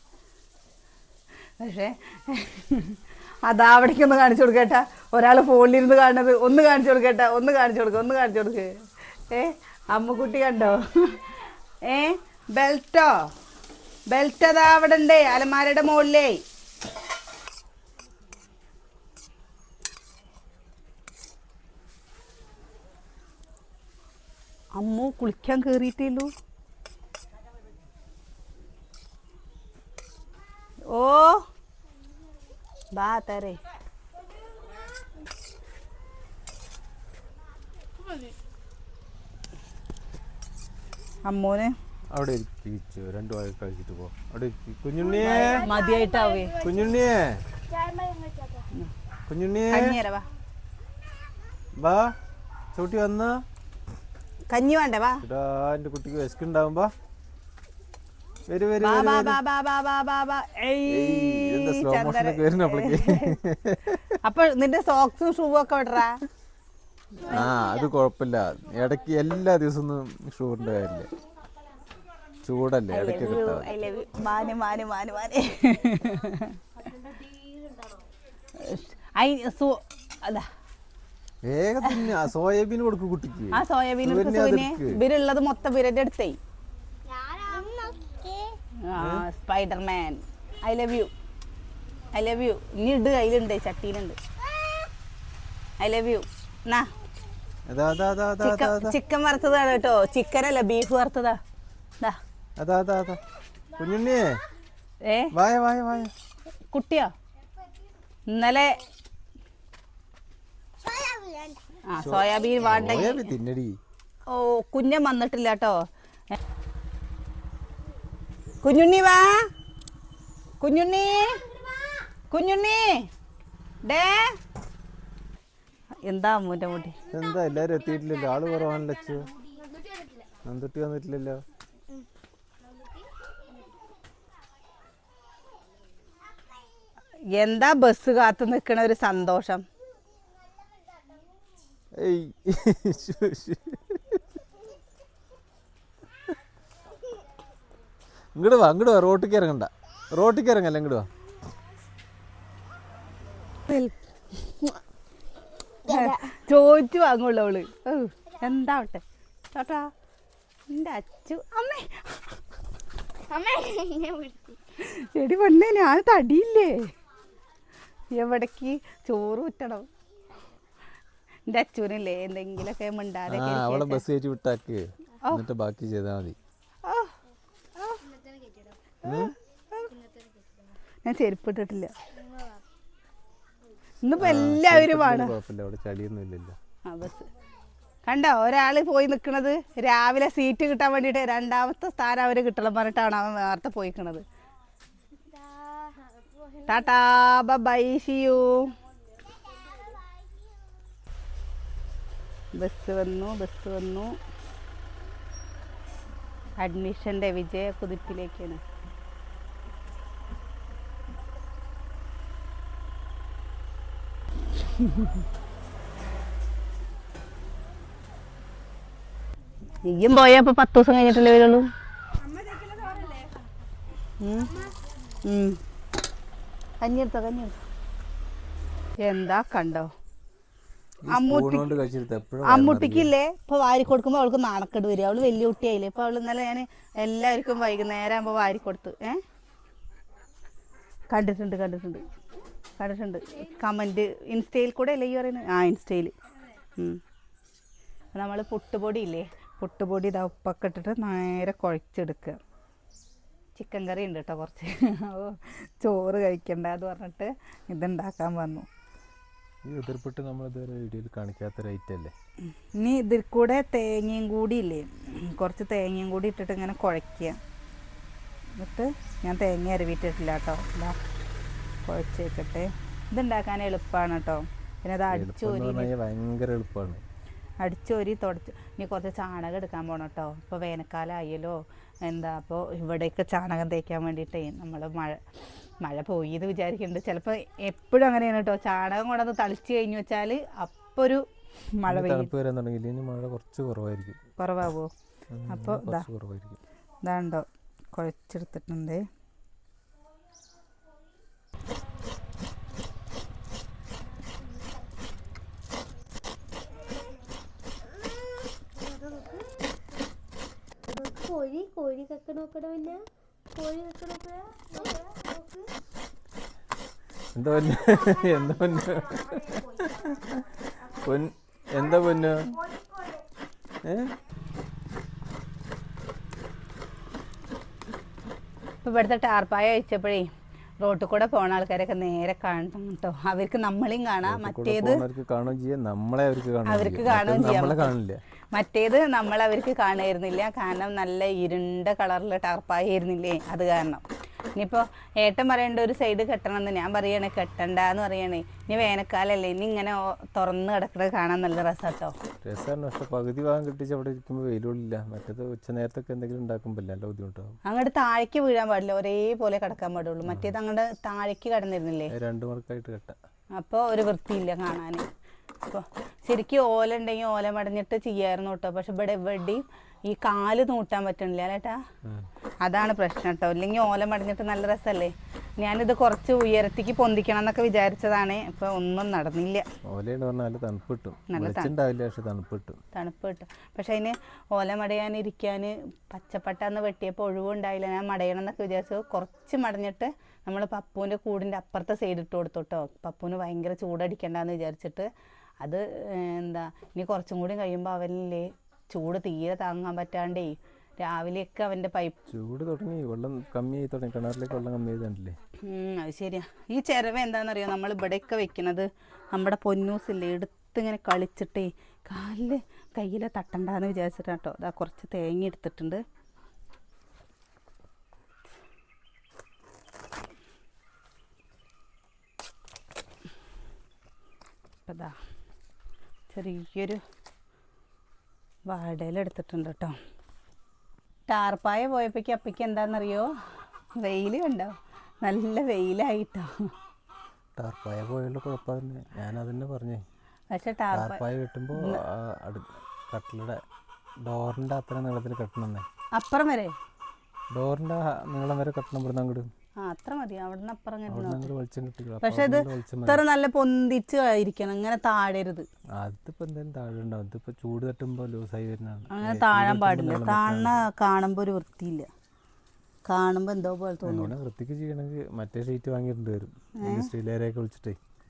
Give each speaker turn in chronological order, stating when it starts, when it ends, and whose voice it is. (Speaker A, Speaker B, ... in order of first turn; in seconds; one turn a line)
Speaker A: 1.6-13.2
Speaker A: 14.1-16.4
Speaker A: 24.8-26.3
Speaker A: 30.9-31.5
Speaker A: 32.9-33.6
Speaker A: 41.3-41.8
Speaker B: 42.1-45.7
Speaker C: 45.0-47.0
Speaker A: 45.2-46.5
Speaker B: 46.6-47.4
Speaker C: 47.6-48.7
Speaker B: 49.3-50.0
Speaker A: 49.7-50.3
Speaker B: 51.8-52.2
Speaker B: 52.7-53.4
Speaker A: 54.5-55.2
Speaker B: 55.2-56.9
Speaker B: 58.5-59.4
Speaker A: 58.8-63.4
Speaker B: 60.9-64.2
Speaker A: 64.2-66.2
Speaker B: 67.3-71.1
Speaker C: 67.4-67.8
Speaker B: 72.4-73.7
Speaker A: 72.9-76.6
Speaker C: 76.8-78.1
Speaker A: 78.5-80.5
Speaker B: 81.4-85.0
Speaker A: 81.8-82.1
Speaker A: 83.5-86.4
Speaker C: 87.1-88.5
Speaker A: 88.8-91.1
Speaker B: 89.0-89.2
Speaker A: 92.1-94.2
Speaker A: 95.8-96.9
Speaker B: 97.7-99.0
Speaker A: 98.4-101.4
Speaker B: 102.6-103.2
Speaker B: 103.8-104.4
Speaker A: 105.0-105.3
Speaker B: 105.3-106.1
Speaker A: 106.7-107.1
Speaker A: 108.3-108.8
Speaker C: 110.8-111.6
Speaker A: 111.8-113.3
Speaker B: 112.0-113.8
Speaker C: 112.2-113.0
Speaker A: 114.3-116.4
Speaker A: 118.6-119.5
Speaker A: 120.6-121.5
Speaker A: 122.3-123.1
Speaker A: 123.8-124.4
Speaker A: 126.0-127.0
Speaker C: 127.1-130.4
Speaker B: 127.1-129.3
Speaker B: 130.4-131.4
Speaker C: 132.6-133.5
Speaker A: 137.3-139.7
Speaker B: 142.0-144.2
Speaker B: 148.3-151.1
Speaker A: 153.7-153.9
Speaker A: 155.9-159.9
Speaker C: 155.9-156.3
Speaker A: 160.7-162.4
Speaker C: 163.3-164.6
Speaker A: 164.8-166.9
Speaker A: 168.1-169.9
Speaker A: 171.5-174.0
Speaker B: 173.3-176.4
Speaker A: 176.8-177.2
Speaker A: 177.8-178.0
Speaker C: 178.0-179.0
Speaker B: 179.0-179.3
Speaker A: 179.0-179.9
Speaker C: 179.8-180.8
Speaker A: 181.1-181.9
Speaker C: 182.1-182.6
Speaker A: 184.0-185.3
Speaker B: 184.2-186.6
Speaker A: 186.9-187.3
Speaker A: 188.1-194.2
Speaker C: 195.2-196.9
Speaker A: 196.7-198.7
Speaker C: 199.1-200.1
Speaker A: 202.6-204.2
Speaker A: 206.6-208.6
Speaker A: 214.7-215.2
Speaker A: 219.8-221.7
Speaker C: 222.2-223.5
Speaker A: 224.2-224.7
Speaker A: 225.2-225.6
Speaker A: 226.8-227.6
Speaker A: 229.0-229.9
Speaker B: 231.1-233.1
Speaker A: 231.1-231.7
Speaker A: 232.4-239.2
Speaker A: 241.1-242.0
Speaker A: 242.8-246.1
Speaker A: 246.8-247.0
Speaker A: 248.1-252.4
Speaker A: 253.6-258.7
Speaker B: 259.6-262.1
Speaker A: 262.8-267.4
Speaker A: 268.6-271.0
Speaker A: 271.9-275.9
Speaker B: 275.1-277.0
Speaker A: 277.6-285.2
Speaker A: 285.8-291.2
Speaker A: 291.8-292.3
Speaker B: 291.9-294.3
Speaker A: 294.4-294.9
Speaker B: 295.3-296.6
Speaker A: 295.5-296.1
Speaker A: 297.0-299.1
Speaker C: 304.2-305.0
Speaker C: 306.6-307.2
Speaker C: 308.8-309.5
Speaker C: 310.9-313.0
Speaker C: 313.6-315.7
Speaker B: 317.3-322.5
Speaker C: 322.5-323.2
Speaker B: 323.8-324.1
Speaker A: 328.8-330.3
Speaker A: 330.8-335.0
Speaker B: 334.2-338.2
Speaker A: 336.7-337.9
Speaker A: 338.5-344.1
Speaker A: 344.6-352.1
Speaker B: 352.4-357.6
Speaker A: 357.7-362.1
Speaker B: 360.2-360.5
Speaker B: 362.1-363.2
Speaker A: 363.6-365.1
Speaker A: 365.7-371.8
Speaker A: 372.6-379.7
Speaker B: 379.9-382.8
Speaker A: 381.3-381.7
Speaker A: 382.9-395.1
Speaker A: 395.6-402.2
Speaker B: 402.3-405.4
Speaker A: 405.6-416.0
Speaker A: 424.9-425.1
Speaker A: 426.3-427.0
Speaker A: 428.7-430.0
Speaker A: 431.3-433.3
Speaker A: 434.0-436.7
Speaker B: 437.6-440.0
Speaker A: 440.5-442.0
Speaker B: 440.9-443.6
Speaker B: 444.2-445.9
Speaker A: 446.2-446.7
Speaker B: 447.5-449.5
Speaker A: 449.8-451.5
Speaker B: 451.1-453.2
Speaker A: 452.2-455.7
Speaker B: 456.0-460.8
Speaker A: 459.1-462.1
Speaker A: 463.1-464.4
Speaker B: 464.1-468.0
Speaker A: 466.8-467.1